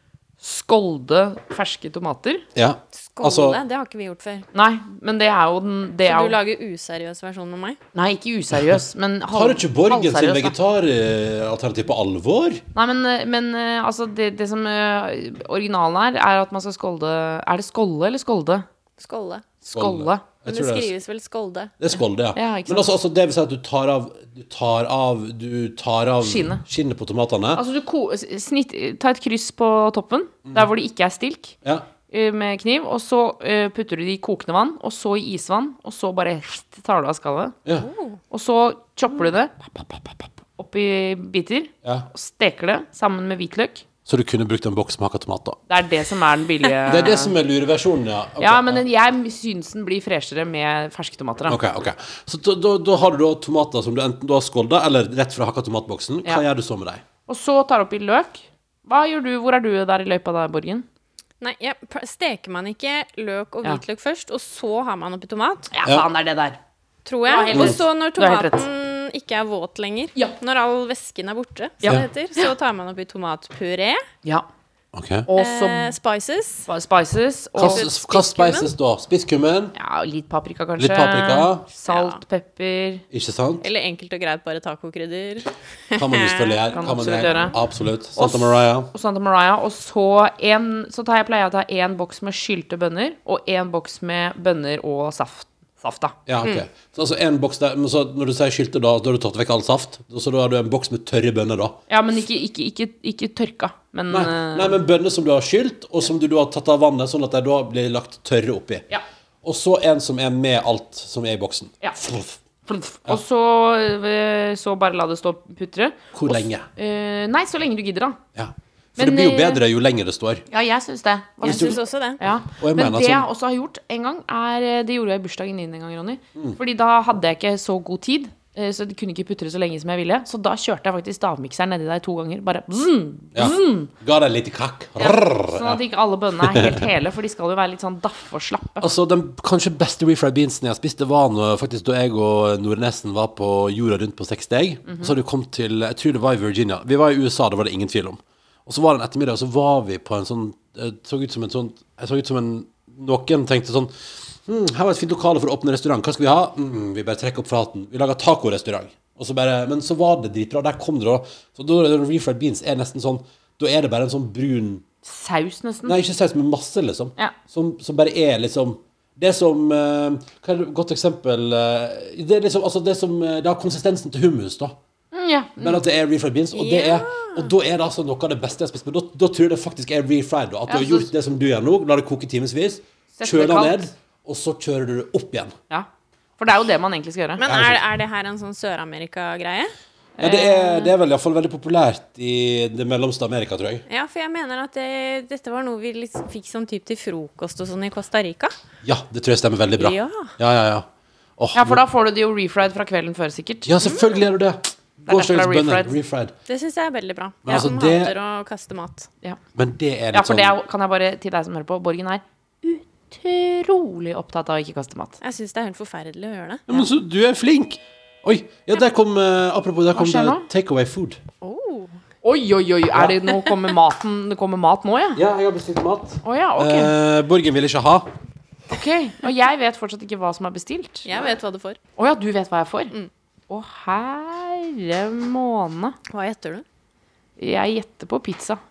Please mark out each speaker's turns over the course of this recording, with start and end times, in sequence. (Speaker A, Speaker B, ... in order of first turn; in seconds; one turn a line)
Speaker A: 0.4-2.5
Speaker B: 2.5-3.6
Speaker C: 2.9-4.5
Speaker A: 4.5-6.3
Speaker C: 6.0-7.8
Speaker A: 7.9-10.5
Speaker B: 9.3-12.6
Speaker A: 12.7-18.6
Speaker C: 19.0-19.5
Speaker B: 19.6-20.9
Speaker A: 19.7-20.2
Speaker C: 20.4-21.7
Speaker B: 21.8-27.6
Speaker A: 22.4-22.9
Speaker A: 26.2-26.6
Speaker A: 27.6-31.6
Speaker A: 32.1-37.5
Speaker C: 37.8-38.2
Speaker A: 38.3-43.8
Speaker B: 44.0-45.6
Speaker A: 45.7-47.3
Speaker B: 46.9-48.8
Speaker A: 48.4-51.6
Speaker B: 51.5-57.0
Speaker A: 57.3-60.9
Speaker C: 61.4-65.7
Speaker A: 65.7-66.6
Speaker C: 67.0-74.0
Speaker A: 67.2-68.6
Speaker B: 67.5-67.8
Speaker B: 74.9-75.3
Speaker A: 75.3-75.9
Speaker C: 75.3-76.7
Speaker A: 76.7-77.8
Speaker C: 77.6-78.7
Speaker B: 77.6-79.7
Speaker A: 79.7-83.0
Speaker B: 80.8-81.6
Speaker C: 81.9-82.2
Speaker B: 83.1-83.6
Speaker C: 83.6-87.5
Speaker B: 86.0-88.9
Speaker A: 86.7-87.5
Speaker A: 88.2-96.1
Speaker B: 96.3-101.8
Speaker A: 101.9-104.8
Speaker B: 104.1-108.8
Speaker B: 109.4-112.4
Speaker A: 112.7-118.2
Speaker B: 116.1-116.7
Speaker B: 118.3-120.4
Speaker A: 119.0-119.6
Speaker A: 120.5-133.9
Speaker C: 121.4-122.2
Speaker B: 121.4-121.8
Speaker B: 122.4-123.3
Speaker B: 133.3-135.8
Speaker A: 135.0-138.9
Speaker B: 136.4-136.9
Speaker B: 138.8-164.8
Speaker A: 144.8-145.1
Speaker A: 165.0-165.9
Speaker B: 165.8-174.8
Speaker A: 175.1-175.8
Speaker B: 175.6-185.5
Speaker C: 176.5-177.5
Speaker A: 180.7-181.1
Speaker A: 183.2-183.9
Speaker A: 185.7-187.4
Speaker C: 187.4-189.7
Speaker B: 187.4-187.8
Speaker B: 190.2-193.8
Speaker A: 190.2-190.5
Speaker C: 190.6-190.9
Speaker C: 193.9-198.5
Speaker B: 198.8-200.9
Speaker C: 199.7-200.3
Speaker B: 201.4-201.8
Speaker A: 201.5-203.7
Speaker B: 203.7-206.3
Speaker C: 203.8-204.2
Speaker A: 205.1-205.9
Speaker C: 206.5-209.1
Speaker B: 207.4-208.1
Speaker B: 209.6-210.6
Speaker A: 210.1-215.2
Speaker C: 215.2-216.7
Speaker B: 216.7-221.2
Speaker A: 219.9-220.5
Speaker C: 221.4-222.0
Speaker A: 222.2-225.2
Speaker B: 225.2-228.1
Speaker A: 226.2-226.9
Speaker A: 228.7-231.3
Speaker C: 231.1-231.8
Speaker A: 231.9-232.9
Speaker A: 233.5-236.0
Speaker C: 236.1-236.6
Speaker A: 237.4-238.6